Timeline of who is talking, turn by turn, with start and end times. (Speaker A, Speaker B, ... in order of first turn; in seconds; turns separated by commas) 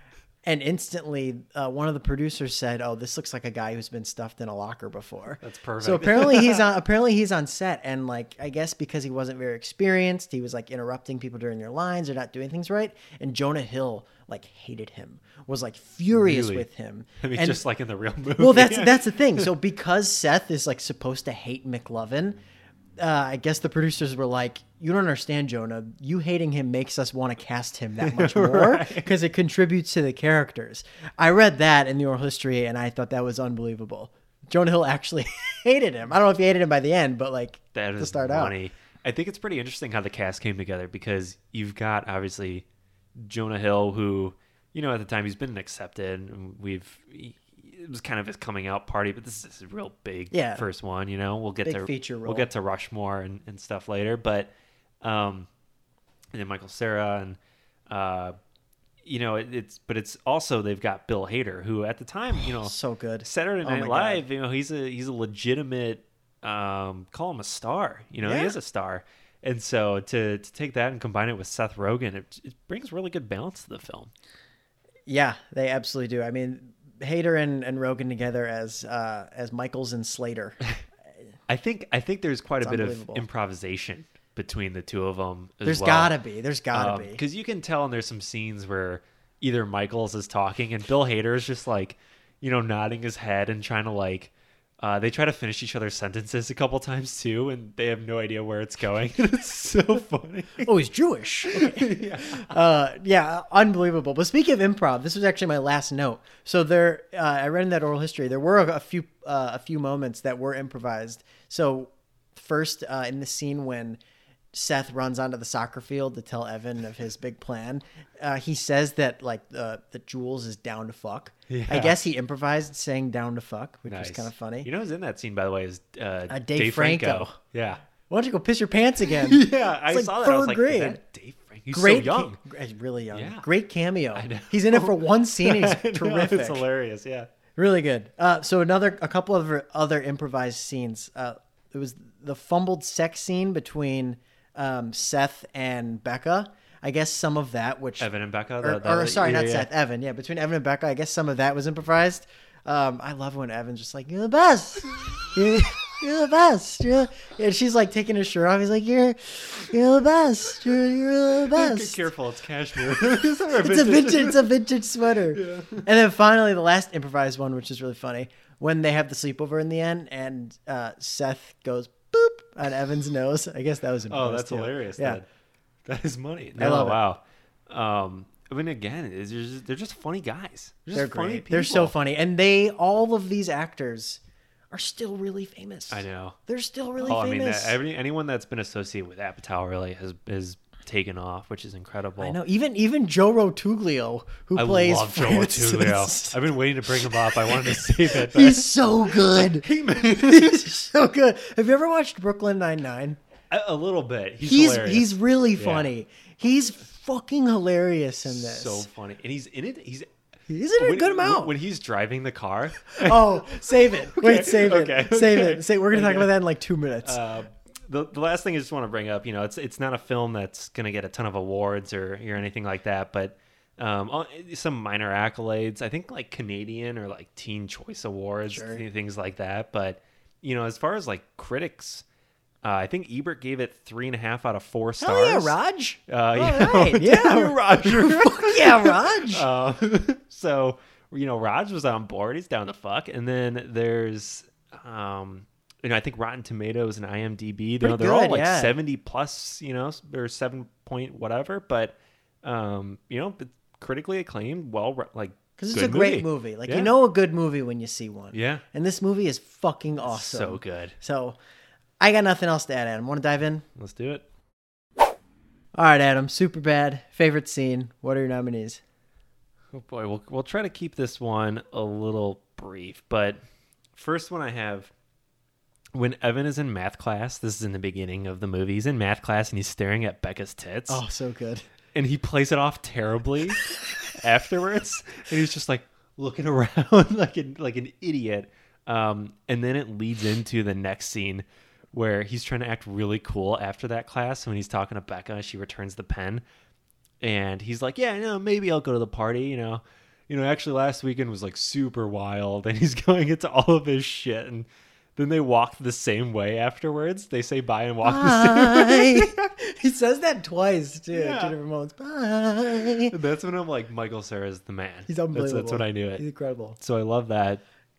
Speaker A: 0.4-17.6, Speaker B: 5.4-6.6, Speaker B: 16.1-16.6, Speaker B: 17.2-19.4, Speaker A: 18.4-22.4, Speaker A: 23.0-38.5, Speaker B: 28.0-29.1, Speaker B: 37.7-42.6, Speaker B: 43.1-54.5, Speaker A: 50.3-50.6, Speaker A: 51.6-52.5, Speaker B: 55.0-55.5, Speaker B: 56.3-57.4, Speaker B: 57.9-58.4, Speaker B: 59.0-74.1, Speaker A: 62.5-64.2, Speaker A: 68.2-68.5, Speaker A: 75.1-80.6, Speaker B: 81.5-86.1, Speaker A: 82.6-83.2, Speaker A: 85.6-87.2, Speaker B: 86.7-100.7, Speaker A: 100.6-114.0, Speaker B: 101.5-102.5, Speaker A: 114.5-124.7, Speaker B: 121.5-122.0, Speaker B: 123.9-127.8, Speaker A: 126.3-127.3, Speaker A: 128.1-131.0, Speaker B: 129.0-132.4, Speaker A: 131.7-136.6, Speaker B: 133.1-133.4, Speaker B: 134.1-137.3, Speaker A: 137.6-148.1, Speaker B: 148.0-149.7, Speaker A: 148.6-162.0, Speaker B: 161.5-164.5, Speaker A: 163.5-175.2, Speaker B: 165.3-165.8, Speaker B: 174.1-175.2, Speaker B: 175.8-181.9, Speaker A: 176.6-177.0, Speaker A: 180.9-184.2, Speaker A: 184.7-187.8, Speaker B: 185.9-186.4, Speaker B: 187.0-192.3, Speaker A: 192.2-196.4, Speaker B: 194.6-200.7, Speaker A: 197.0-203.2, Speaker B: 203.5-205.9, Speaker A: 204.4-208.8, Speaker B: 208.2-210.1, Speaker A: 210.5-211.5, Speaker B: 210.8-216.3, Speaker A: 212.9-217.2, Speaker B: 217.0-232.0, Speaker A: 228.5-228.8, Speaker B: 232.6-235.5, Speaker A: 235.0-239.5, Speaker B: 236.1-256.9, Speaker A: 247.8-248.7, Speaker A: 255.6-261.4, Speaker B: 258.3-258.6, Speaker B: 260.0-260.9, Speaker A: 262.0-263.6, Speaker B: 263.8-264.2, Speaker A: 265.7-268.8, Speaker B: 269.7-273.4, Speaker B: 273.9-274.9, Speaker B: 275.9-281.0, Speaker A: 280.9-281.6, Speaker B: 281.9-296.4, Speaker B: 297.2-309.3, Speaker A: 308.0-313.1, Speaker B: 311.1-311.5, Speaker B: 312.9-316.2, Speaker A: 315.1-316.8, Speaker B: 316.8-317.6